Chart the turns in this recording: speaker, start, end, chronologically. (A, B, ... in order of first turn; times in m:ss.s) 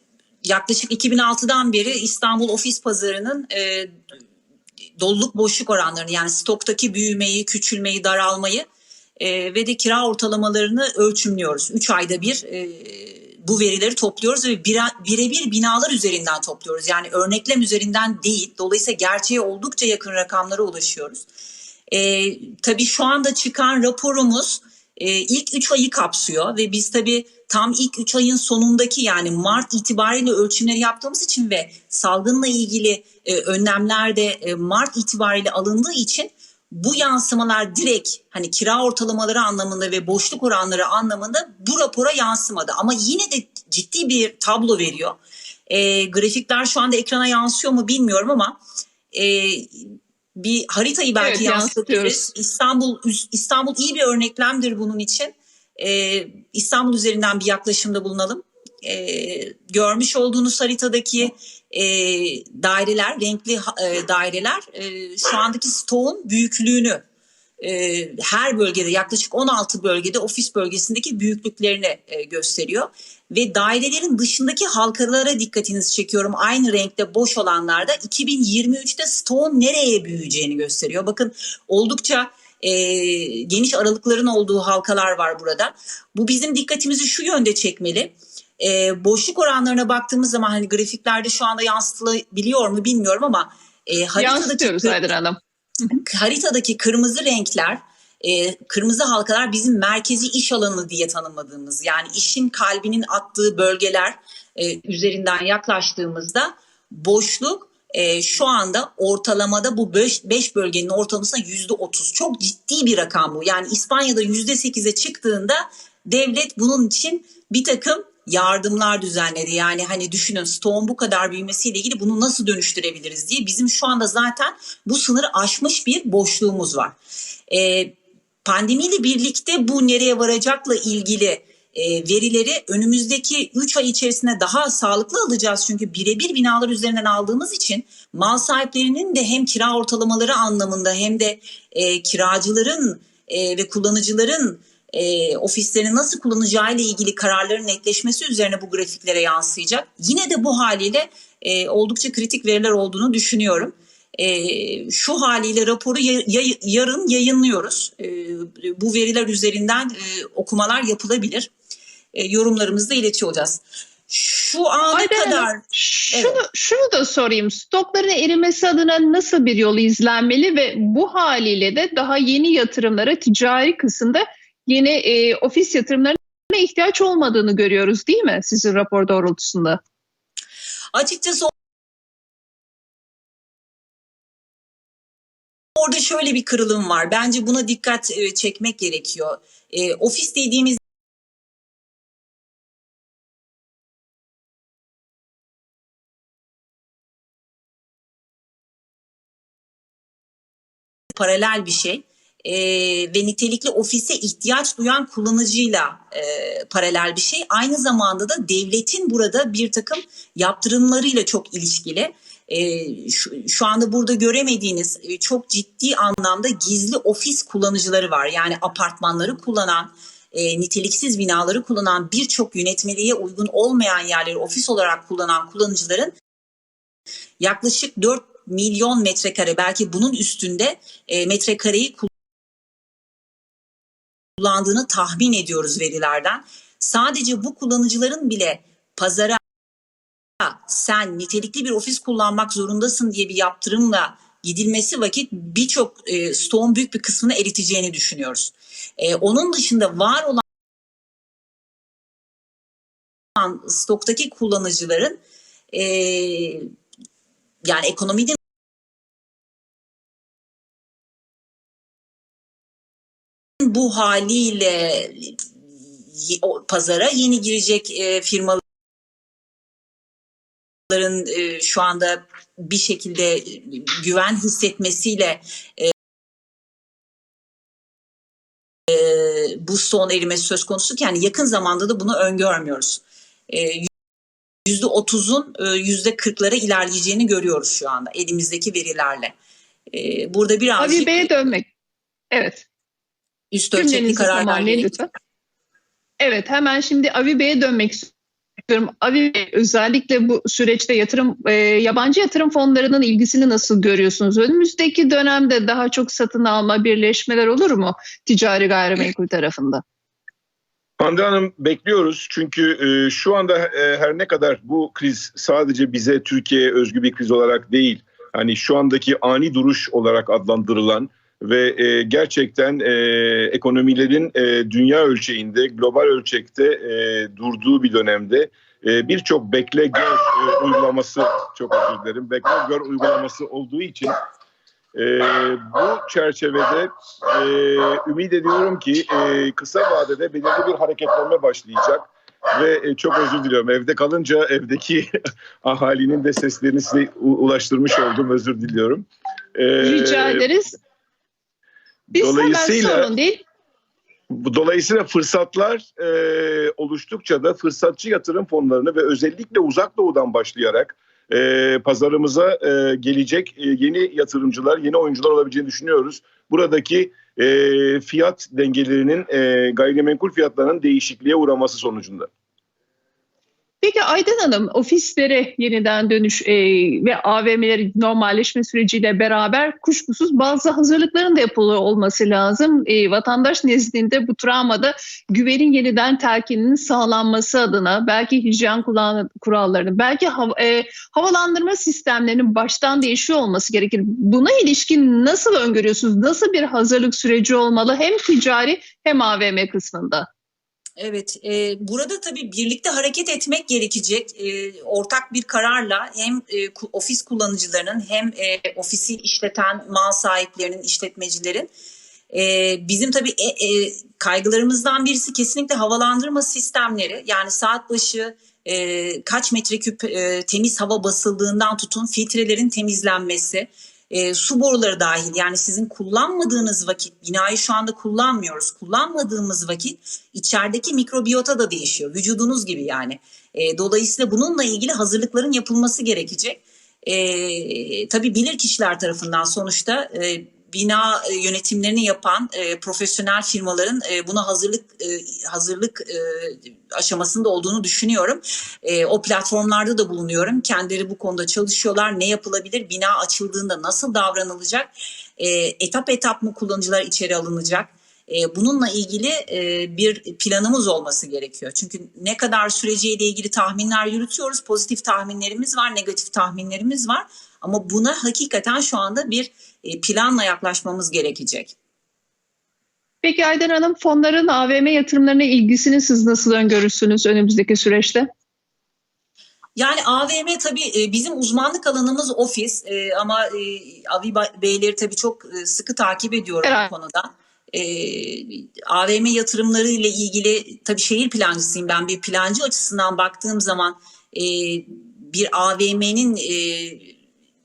0:00.4-0:03.9 A
0:05.0-0:08.6 A
0:09.2-0:21.2 A
0:21.9-0:45.2 A
0:45.7-0:48.6 A
0:49.1-1:07.0 A
0:51.2-0:52.2 B
1:07.6-1:35.0 A
1:34.2-1:36.0 B
1:36.0-2:07.0 A
2:07.5-2:41.5 A
2:42.1-2:46.4 A
2:44.9-2:59.8 B
3:00.9-3:01.5 A
3:05.8-3:10.8 A
3:21.1-3:46.1 A
3:47.4-3:52.1 A
3:54.4-3:59.4 A
4:00.4-4:10.4 A
4:13.4-4:15.2 A
4:15.7-4:16.7 A
4:17.6-4:18.4 A
4:23.6-4:25.4 A
4:26.1-4:28.6 A
4:30.9-4:35.9 A
4:38.9-4:43.9 A
4:44.6-4:49.3 A
4:49.9-4:51.3 A
4:50.8-4:51.7 B
4:52.3-4:52.6 B
4:53.5-4:54.9 A
4:53.8-4:55.1 B
4:56.2-4:58.1 B
4:58.7-5:09.8 B
5:11.0-5:34.1 C
5:34.9-5:45.1 C
5:45.6-5:50.4 C
5:49.8-5:50.7 B
5:52.1-5:53.4 B
5:52.1-5:53.1 C
5:54.3-6:12.3 C
6:13.8-6:40.3 B
6:41.0-6:51.7 A
6:52.3-7:51.7 A
7:53.2-7:58.3 B
7:59.8-8:17.1 A
8:06.6-8:06.9 B